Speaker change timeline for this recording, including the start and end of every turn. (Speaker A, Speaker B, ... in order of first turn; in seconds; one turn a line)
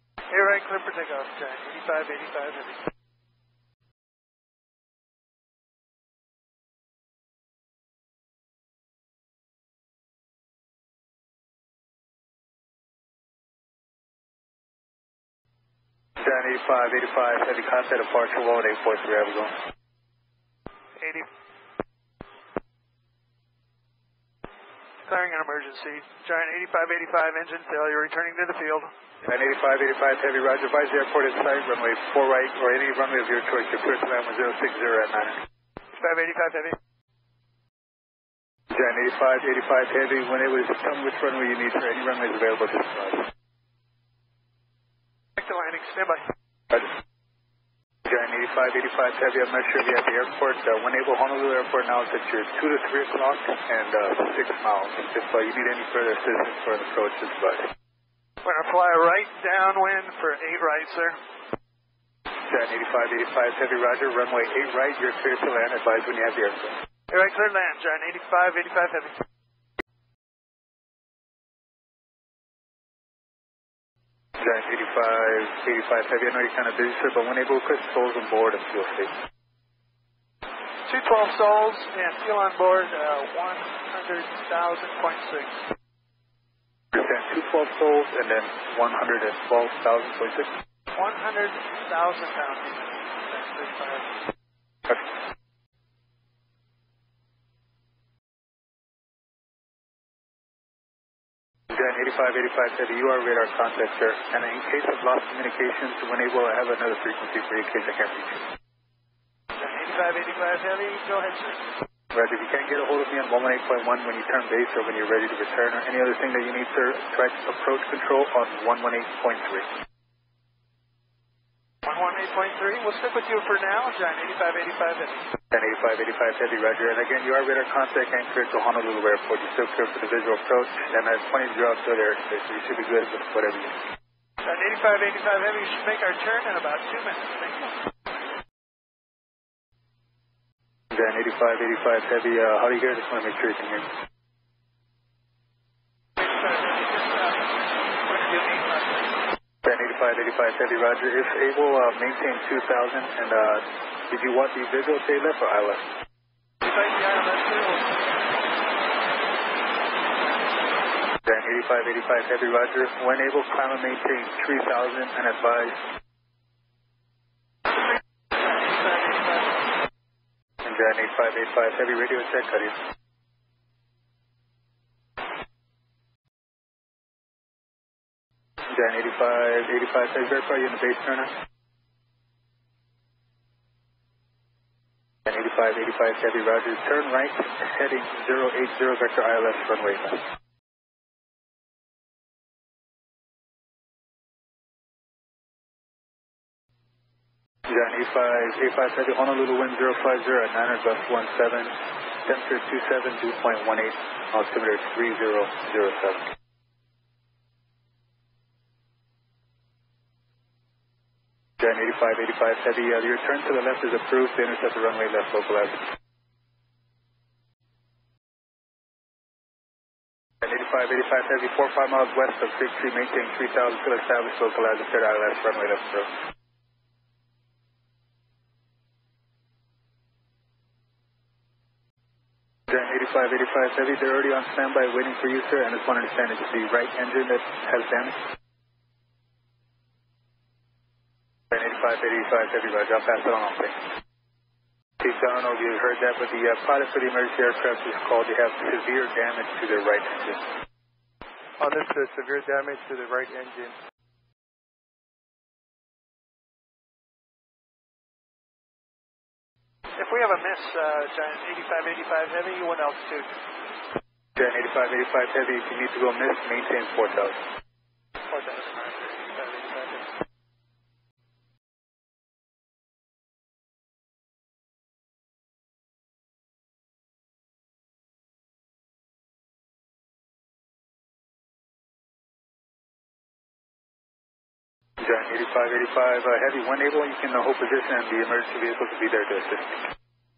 Speaker A: 0.3-2.8
Speaker B: 16.2-19.5
Speaker A: 21.0-21.3
Speaker A: 25.0-28.9
Speaker B: 29.2-35.4
Speaker A: 35.9-36.8
Speaker B: 38.7-43.3
Speaker A: 45.4-46.2
Speaker B: 48.1-57.6
Speaker A: 58.4-61.2
Speaker B: 62.5-66.8
Speaker A: 67.1-69.2
Speaker B: 74.4-79.1
Speaker A: 80.8-85.6
Speaker B: 86.9-90.5
Speaker A: 90.9-94.2
Speaker B: 101.7-108.5
Speaker A: 109.6-111.7
Speaker B: 112.1-119.7
Speaker A: 121.9-125.3
Speaker B: 125.5-133.8
Speaker A: 134.4-138.2
Speaker B: 140.9-143.9
Speaker A: 146.2-149.2
Speaker B: 149.6-155.9
Speaker A: 156.6-158.3
Speaker B: 161.2-165.8
Speaker A: 167.7-169.7
Speaker B: 170.6-172.8
Speaker B: 178.7-181.3
Speaker B: 185.3-190.2
Speaker B: 197.7-206.2
Speaker B: 211.6-215.8
Speaker B: 220.4-226.1
Speaker B: 232.7-238.2
Speaker B: 241.5-243.8
Speaker B: 245.0-250.5
Speaker C: 251.6-253.8
Speaker A: 260.0-263.7
Speaker B: 264.4-267.4
Speaker A: 268.3-270.1
Speaker B: 285.0-289.9